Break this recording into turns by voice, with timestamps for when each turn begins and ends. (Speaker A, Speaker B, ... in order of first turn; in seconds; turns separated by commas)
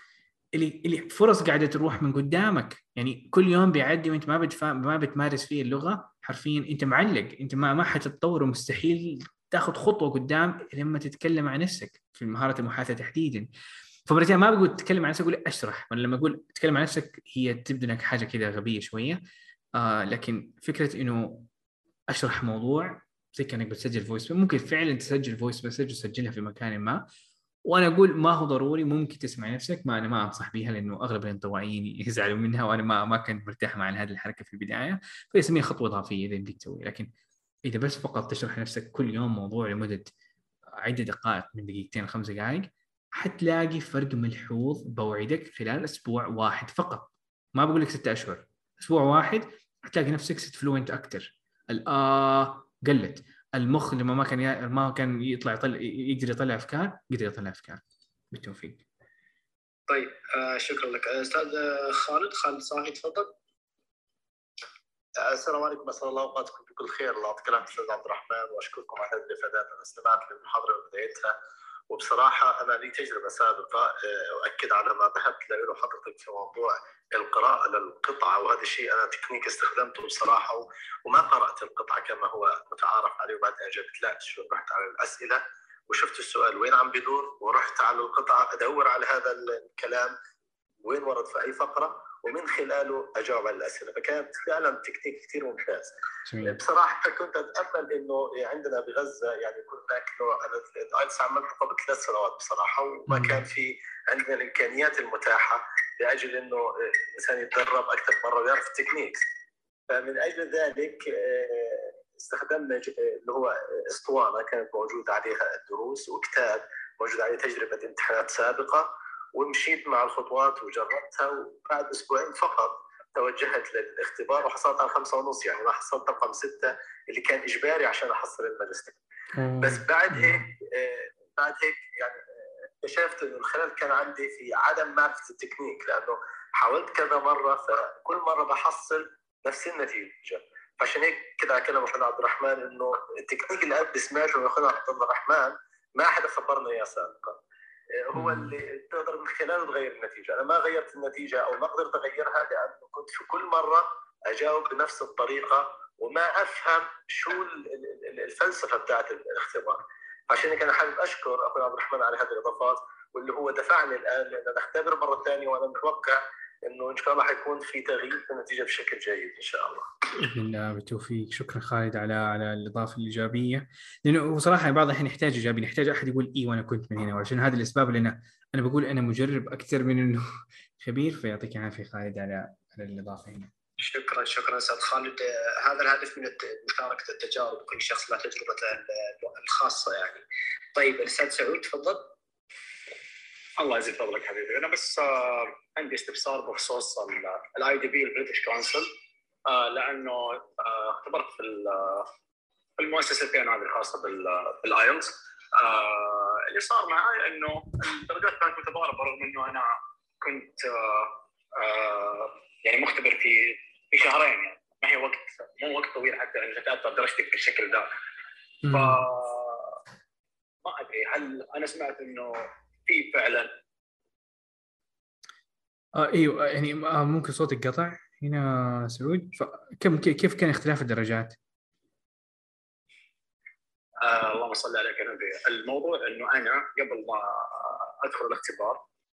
Speaker A: 0.6-13.5, Speaker A: 14.1-19.2, Speaker A: 19.8-21.5, Speaker A: 22.1-27.0, Speaker A: 27.7-37.1, Speaker A: 37.7-40.1, Speaker A: 40.8-57.8, Speaker A: 58.3-58.8, Speaker B: 59.9-63.3, Speaker C: 65.2-71.3, Speaker C: 71.9-90.1, Speaker C: 90.8-109.2, Speaker A: 96.3-96.6, Speaker A: 103.1-103.5, Speaker C: 109.9-129.0, Speaker A: 129.4-130.5, Speaker C: 129.6-132.2, Speaker C: 132.8-147.4, Speaker C: 148.0-169.9, Speaker A: 148.2-148.6, Speaker A: 170.2-180.3, Speaker A: 180.8-183.5, Speaker B: 183.8-190.2, Speaker B: 190.8-192.1, Speaker D: 193.6-198.9, Speaker D: 199.5-202.1, Speaker D: 202.8-217.9, Speaker A: 218.6-219.0, Speaker D: 218.7-219.8, Speaker D: 220.7-223.5, Speaker A: 225.9-231.4, Speaker D: 234.0-238.8